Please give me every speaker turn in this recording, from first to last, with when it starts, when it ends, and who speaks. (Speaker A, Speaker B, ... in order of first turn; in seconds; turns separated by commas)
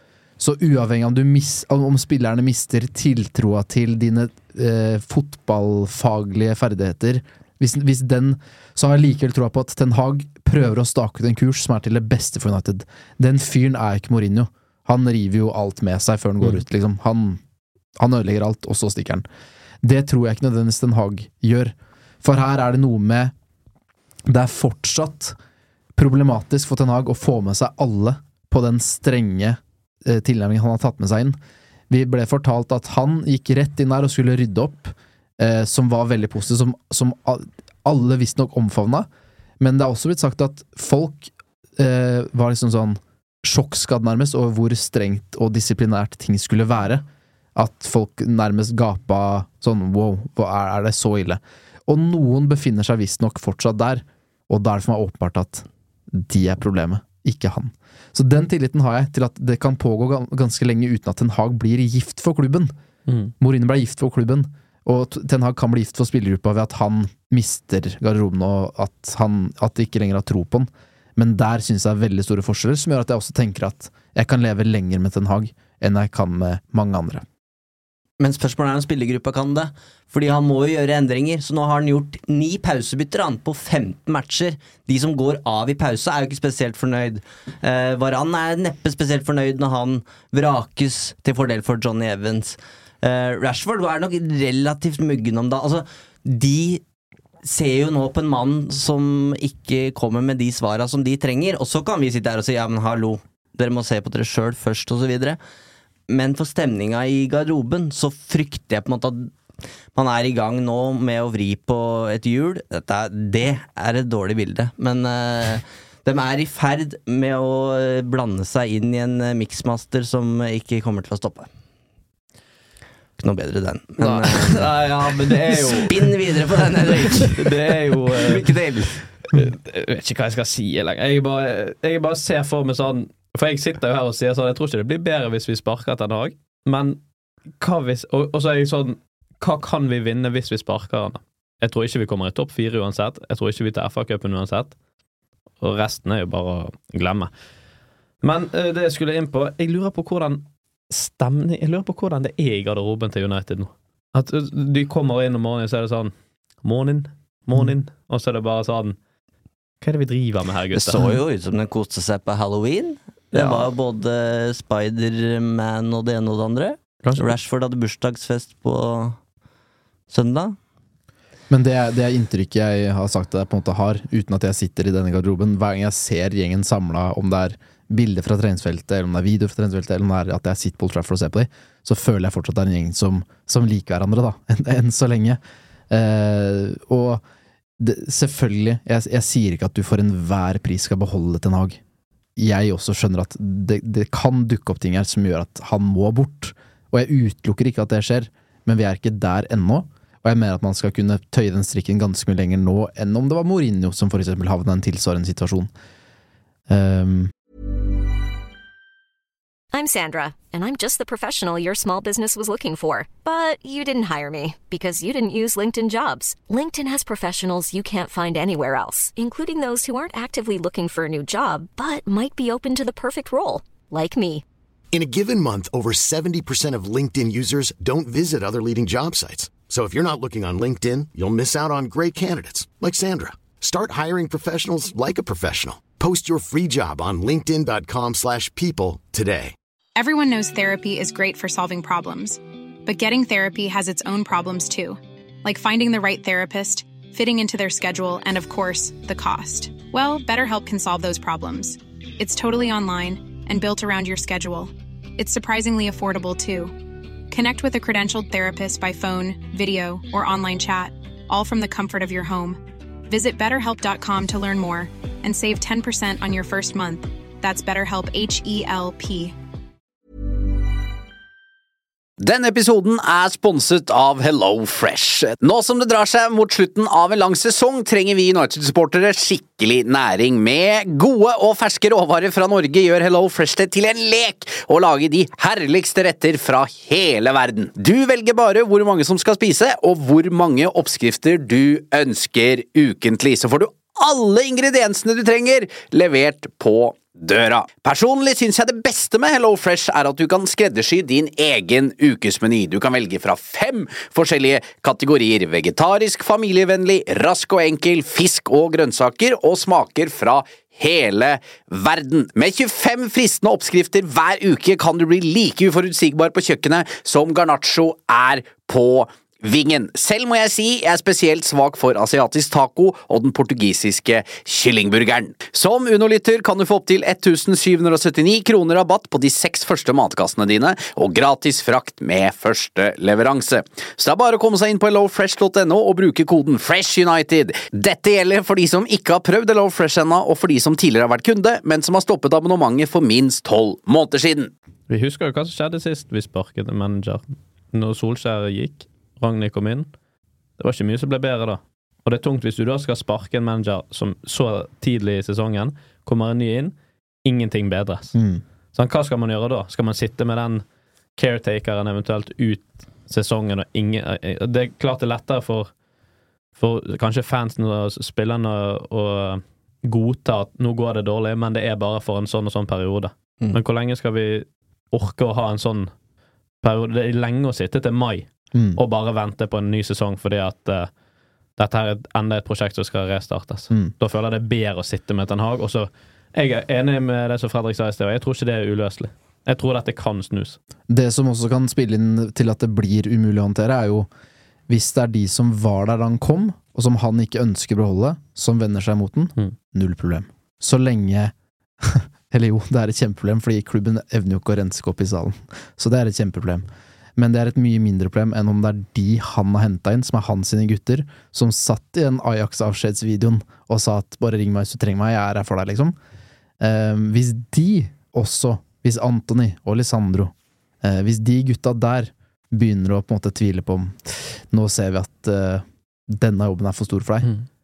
Speaker A: 0.4-17.4, Speaker A: 18.0-19.2, Speaker A: 19.8-23.3, Speaker A: 24.3-25.4, Speaker A: 25.9-31.4, Speaker A: 31.9-39.1, Speaker A: 39.6-47.0, Speaker A: 47.5-62.7, Speaker A: 63.4-77.2, Speaker B: 78.2-96.8, Speaker B: 97.4-105.4, Speaker B: 106.1-109.3, Speaker B: 109.9-121.5, Speaker B: 123.2-124.7, Speaker C: 124.0-126.1, Speaker B: 125.6-127.5, Speaker C: 127.1-128.5, Speaker B: 128.1-129.0, Speaker C: 129.2-137.0, Speaker C: 137.6-144.7, Speaker C: 145.6-147.3, Speaker C: 148.2-159.0, Speaker C: 159.8-161.1, Speaker B: 160.7-169.2, Speaker C: 163.3-163.7, Speaker C: 167.0-167.3, Speaker B: 170.1-170.6, Speaker A: 171.5-187.2, Speaker A: 187.8-191.8, Speaker A: 192.4-205.7, Speaker A: 206.7-207.3, Speaker D: 209.7-224.4, Speaker E: 224.9-239.5, Speaker F: 239.9-256.7, Speaker F: 257.3-269.3, Speaker G: 272.2-344.5, Speaker C: 344.9-349.9, Speaker C: 350.6-356.7, Speaker C: 357.2-358.1, Speaker A: 358.1-358.4, Speaker C: 358.7-360.6, Speaker C: 361.1-365.7, Speaker C: 366.6-375.9, Speaker C: 376.6-380.9, Speaker A: 378.5-378.8, Speaker C: 381.6-390.6, Speaker A: 390.9-394.1, Speaker A: 394.7-415.9, Speaker A: 416.6-427.3